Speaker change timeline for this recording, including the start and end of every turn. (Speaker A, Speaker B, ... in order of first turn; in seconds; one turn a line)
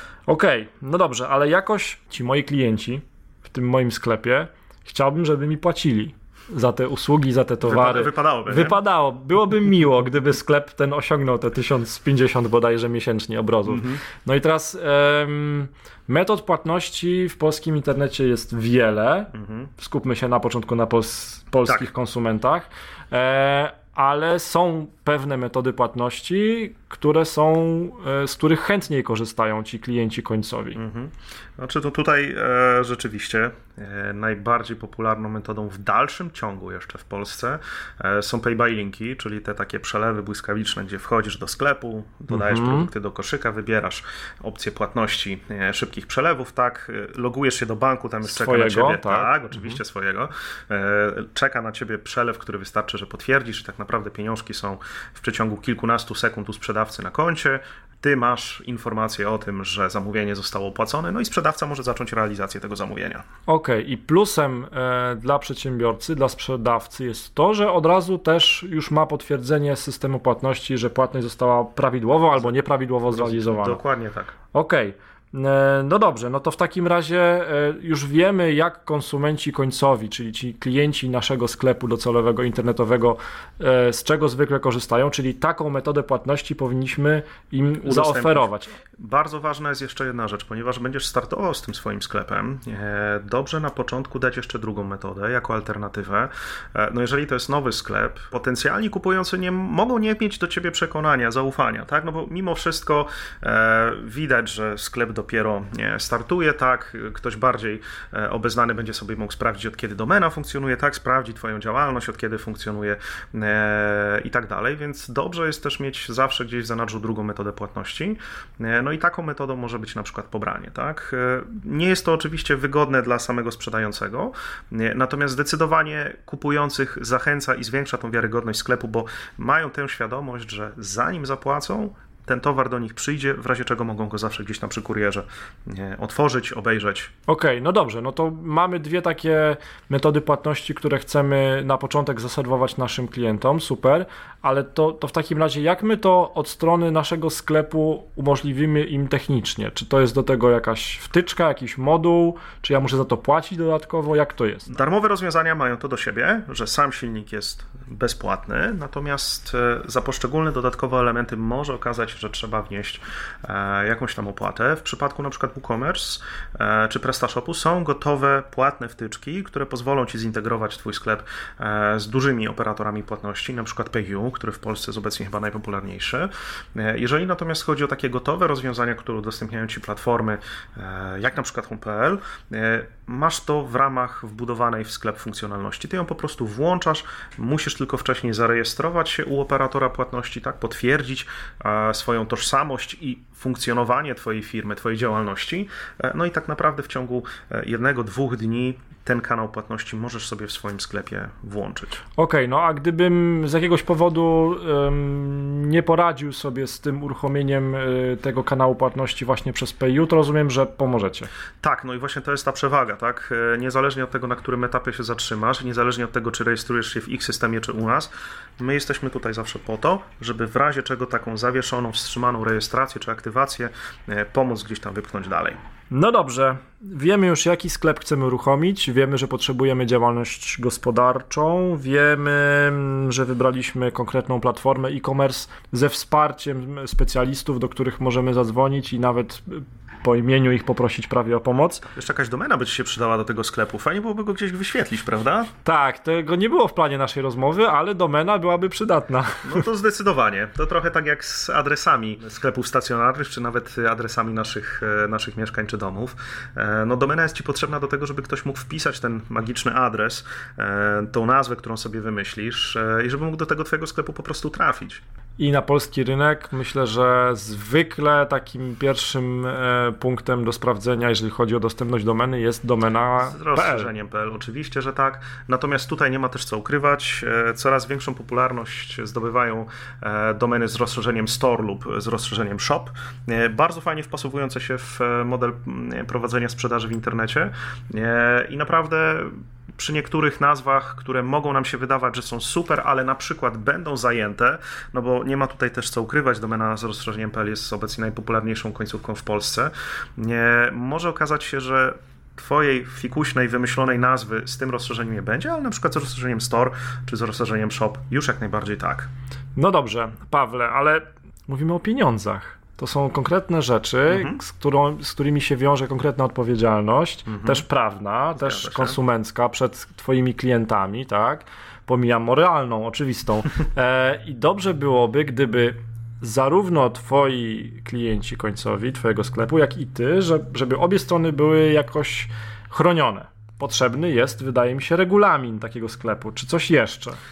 Speaker A: 0.3-30.8
Speaker B: 7.6-8.8
Speaker B: 13.7-14.0
Speaker B: 19.3-19.7
Speaker B: 30.7-63.2
Speaker A: 42.3-42.9
Speaker A: 48.2-49.8
Speaker A: 63.5-73.8
Speaker B: 73.1-74.3
Speaker A: 74.5-88.7
Speaker B: 87.8-137.1
Speaker A: 137.3-154.7
Speaker B: 154.7-202.0
Speaker A: 202.2-211.3
Speaker B: 211.6-225.6
Speaker A: 225.9-241.8
Speaker B: 241.9-245.5
Speaker A: 245.6-249.6
Speaker B: 249.4-265.0
Speaker A: 265.4-273.9
Speaker B: 273.2-309.1
Speaker A: 309.6-337.2
Speaker B: 314.1-314.4
Speaker B: 317.3-317.6
Speaker B: 318.3-319.0